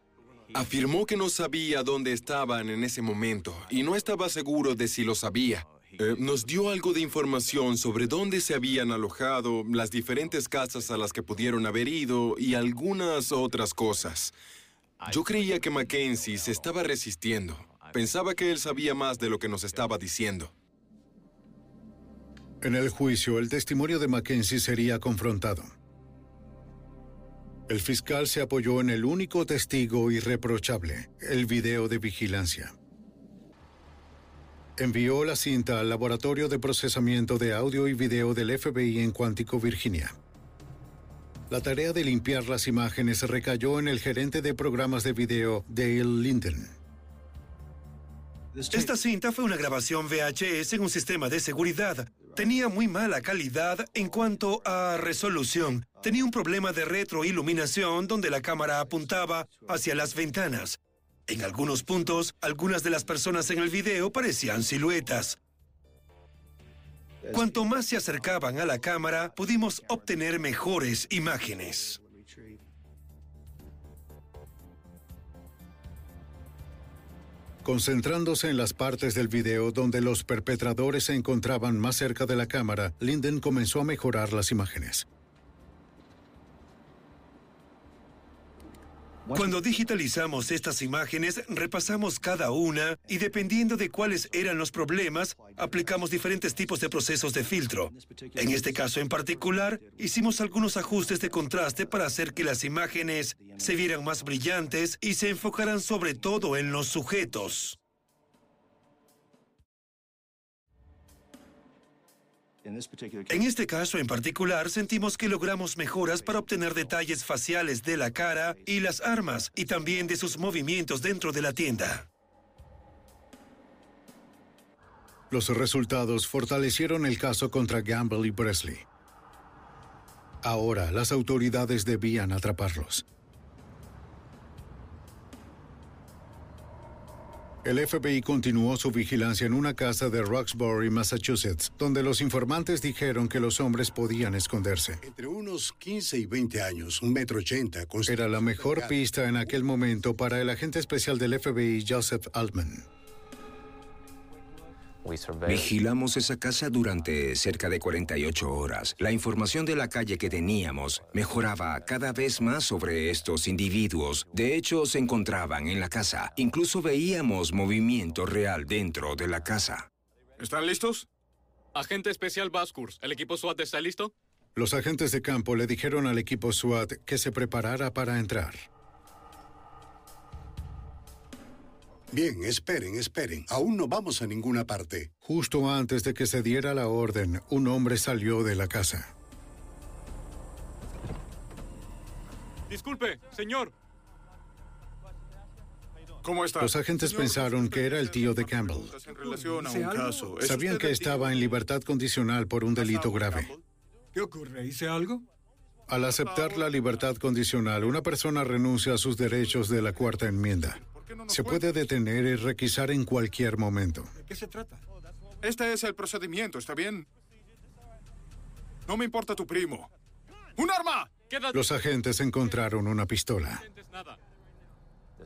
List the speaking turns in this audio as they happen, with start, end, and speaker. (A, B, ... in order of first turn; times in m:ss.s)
0:00.5-0:14.4 A
0:15.0-0:20.5 A
0:22.6-0:25.7 B
0:27.7-0:32.8 B
0:34.8-0:40.2 B
0:41.5-0:46.8 B
0:48.7-1:05.4 C
1:07.3-1:12.0 C
1:17.6-1:25.1 B
1:29.3-1:47.8 C
1:53.3-2:02.1 C
2:05.3-2:08.9 B
2:10.4-2:13.0 B
2:17.6-2:25.0 B
2:25.0-2:29.0 D
2:28.1-2:32.9 B
2:35.5-2:49.9 E
2:50.4-2:51.1 F
2:51.7-2:54.1 G
2:54.6-2:58.7 B
3:02.1-3:05.1 D
3:05.2-3:09.1 B
3:12.7-3:13.7 F
3:16.2-3:21.3 F
3:16.6-3:19.0 B
3:19.1-3:21.4 H
3:20.4-3:23.5 B
3:22.8-3:23.6 F
3:24.2-3:25.2 H
3:25.9-3:34.1 B
3:26.1-3:26.7 F
3:30.8-3:31.7 F
3:34.2-3:34.8 H
3:35.4-3:37.1 F
3:38.9-3:39.9 F
3:40.6-3:41.3 F
3:41.5-3:43.6 B